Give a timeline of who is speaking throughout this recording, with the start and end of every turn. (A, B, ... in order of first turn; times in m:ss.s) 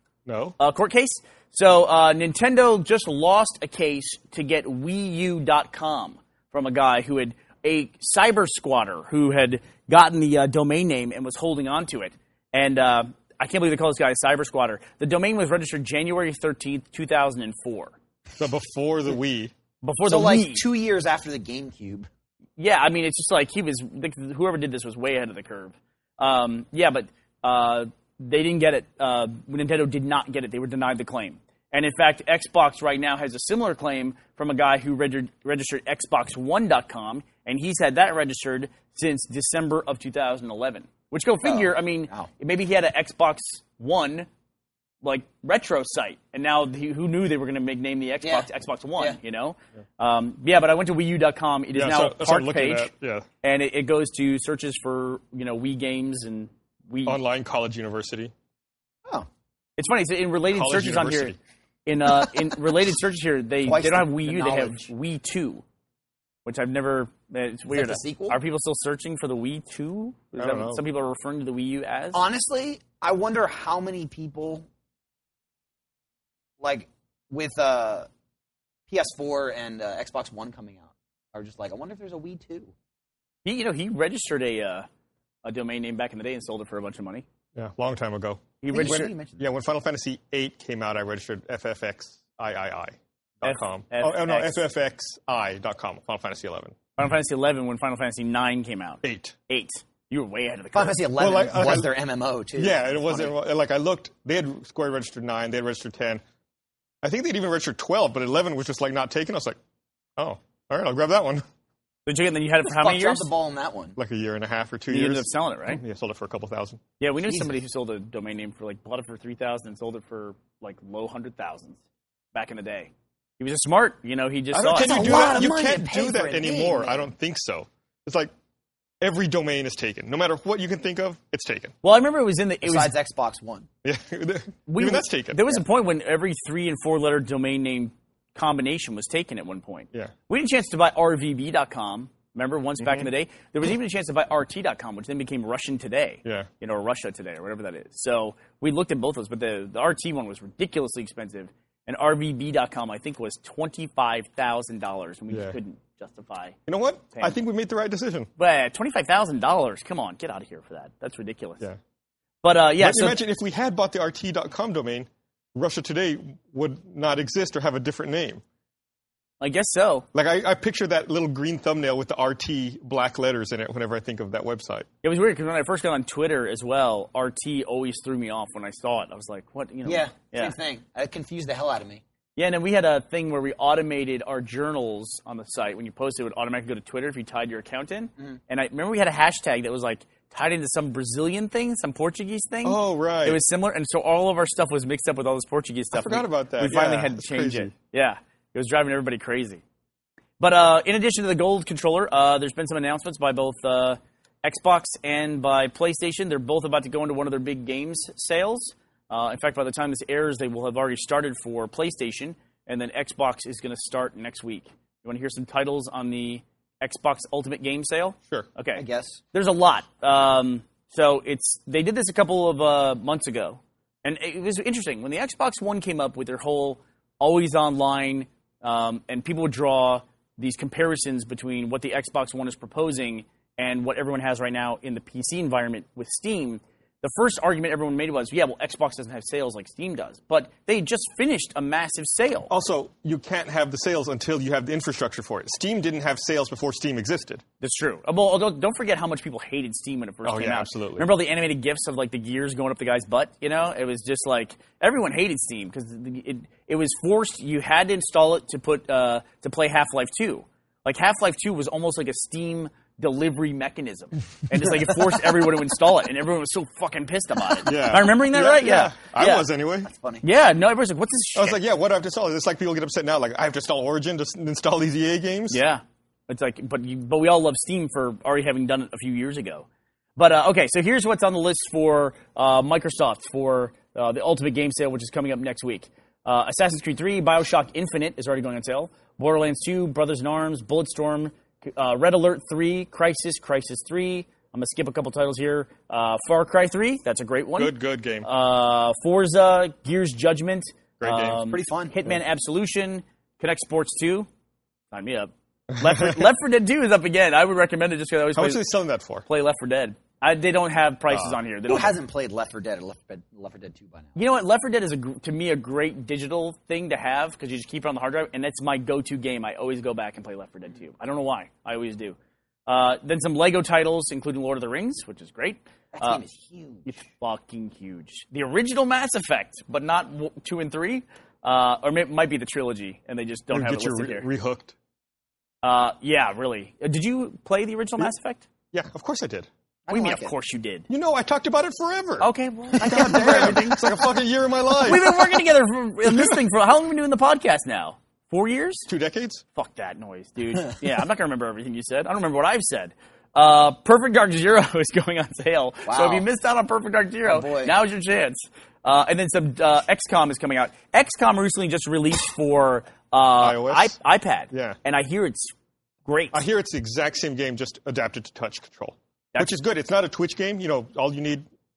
0:00.2-0:00.6 A
0:00.6-0:17.9 B
0:18.4-0:19.5 A
0:19.8-0:20.6 B
0:20.0-0:22.1 C
0:22.6-0:44.3 B
0:41.4-0:42.3 C
0:45.0-0:52.9 B
0:51.7-0:53.2 A
0:53.4-0:57.2 B
0:57.0-0:58.3 A
0:59.8-1:01.3 B
1:00.5-1:01.4 A
1:01.8-1:05.6 B
1:03.6-1:04.9 C
1:06.4-1:12.2 B
1:07.7-1:08.4 C
1:10.4-1:10.8 A
1:12.1-1:14.6 C
1:16.6-1:18.1 C
1:18.9-1:22.7 C
1:23.4-1:24.9 B
1:25.4-1:27.2 B
1:27.5-1:36.8 A
1:28.6-1:29.1 B
1:28.7-1:29.4 C
1:33.4-1:34.6 B
1:37.0-1:41.0 B
1:39.0-1:39.3 A
1:40.7-1:43.3 C
1:41.2-1:41.9 A
1:42.6-1:46.2 A
1:47.0-1:49.6 A
1:50.2-1:51.4 A
1:52.0-1:53.3 B
1:52.6-1:54.0 C
1:54.0-1:56.8 A
1:54.9-1:55.8 B
1:57.0-2:01.8 B
1:57.3-1:57.5 C
2:02.3-2:05.4 B
2:04.5-2:08.3 A
2:04.7-2:07.1 C
2:09.0-2:11.7 A
2:11.8-2:12.9 B
2:12.6-2:13.7 C
2:13.8-2:15.6 A
2:14.7-2:36.6 B
2:26.2-2:26.5 A
2:35.3-2:35.6 A
2:36.7-2:38.3 A
2:37.1-2:37.4 B
2:38.4-2:41.6 B
2:42.4-2:43.2 B
2:42.8-2:48.4 A
2:49.4-2:50.0 B
2:50.1-2:54.9 A
2:55.0-3:00.5 B
2:59.8-3:02.0 C
3:02.4-3:19.6 B
3:12.6-3:13.4 A
3:15.9-3:17.7 A
3:20.4-4:02.5 B
3:38.8-3:39.2 C
4:02.5-4:07.4 A
4:07.6-4:29.5 B
4:10.2-4:11.1 A
4:27.6-4:29.9 A
4:29.9-4:30.2 C
4:30.2-4:31.6 B
4:31.4-4:35.6 A
4:35.5-5:04.3 B
4:57.6-4:58.3 A
5:01.0-5:01.4 A
5:01.5-5:02.0 C
5:04.9-5:08.6 B
5:05.8-5:06.2 A
5:08.3-5:09.2 A
5:09.2-5:12.0 B
5:11.1-5:11.4 A
5:11.7-5:14.1 C
5:14.2-5:22.2 B
5:22.7-5:26.2 B
5:25.9-5:27.0 C
5:26.8-5:34.2 B
5:33.5-5:34.7 A
5:35.6-5:38.4 B
5:38.7-5:39.5 A
5:39.9-5:40.3 C
5:39.9-5:40.9 B
5:40.9-5:45.4 A
5:42.2-5:43.8 B
5:42.8-5:43.6 C
5:44.8-5:48.9 B
5:48.9-5:49.4 A
5:49.6-6:05.5 B
5:55.8-5:56.2 C
5:57.2-5:57.7 C
6:03.4-6:04.0 A
6:04.5-6:04.8 A
6:06.0-6:06.4 B
6:06.3-6:11.4 A